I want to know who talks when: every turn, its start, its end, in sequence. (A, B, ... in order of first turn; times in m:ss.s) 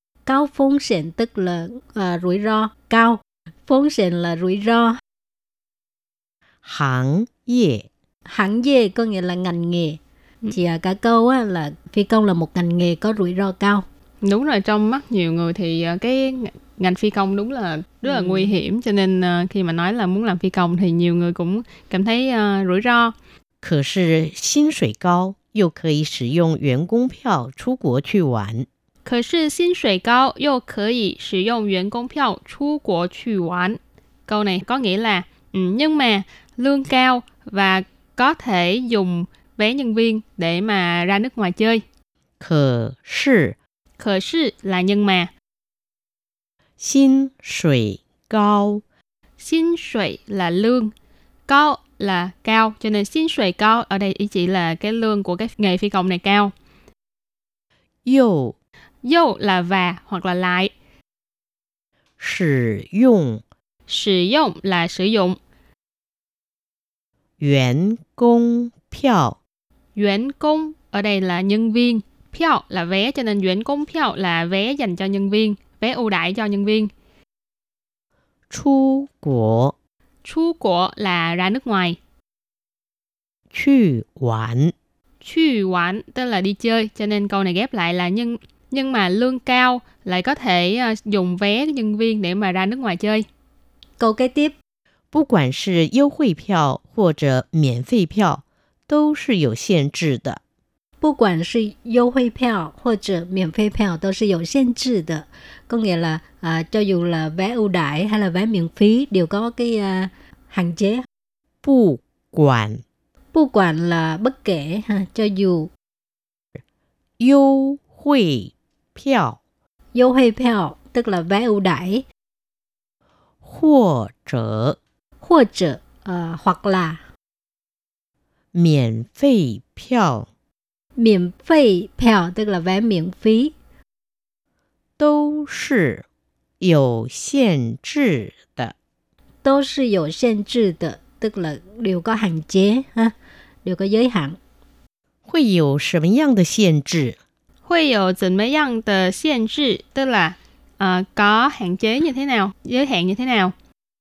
0:00.2-0:05.0 A
0:06.6-0:07.9 B
0:08.3-0:10.0 A
0:10.5-0:13.8 A
0:14.2-0:23.2 C
0:18.1-0:18.5 A
0:23.6-0:28.7 B
0:29.0-0:41.8 C
0:42.4-0:43.6 B
0:44.0-0:45.3 C
0:46.8-0:48.8 B
0:49.4-0:50.9 C
0:51.5-0:56.5 C
0:58.0-0:58.6 B
0:59.0-1:00.7 C
1:02.2-1:03.4 B
1:03.9-1:05.4 C
1:07.4-1:09.4 B
1:10.0-1:16.9 C
1:18.5-1:19.8 B
1:20.2-1:22.0 C
1:23.5-1:24.7 B
1:25.2-1:33.3 C
1:34.0-1:34.6 A
1:35.1-1:40.4 B
1:41.0-1:51.1 A
1:51.6-1:52.8 B
1:53.3-1:55.7 A
1:57.2-1:59.4 B
1:59.9-2:02.0 A
2:03.4-2:04.8 B
2:05.2-2:07.0 A
2:08.5-2:10.3 B
2:11.0-2:13.5 A
2:15.0-2:16.0 B
2:16.6-2:18.8 B
2:19.4-2:24.4 A
2:25.3-2:27.2 B
2:27.7-2:33.5 C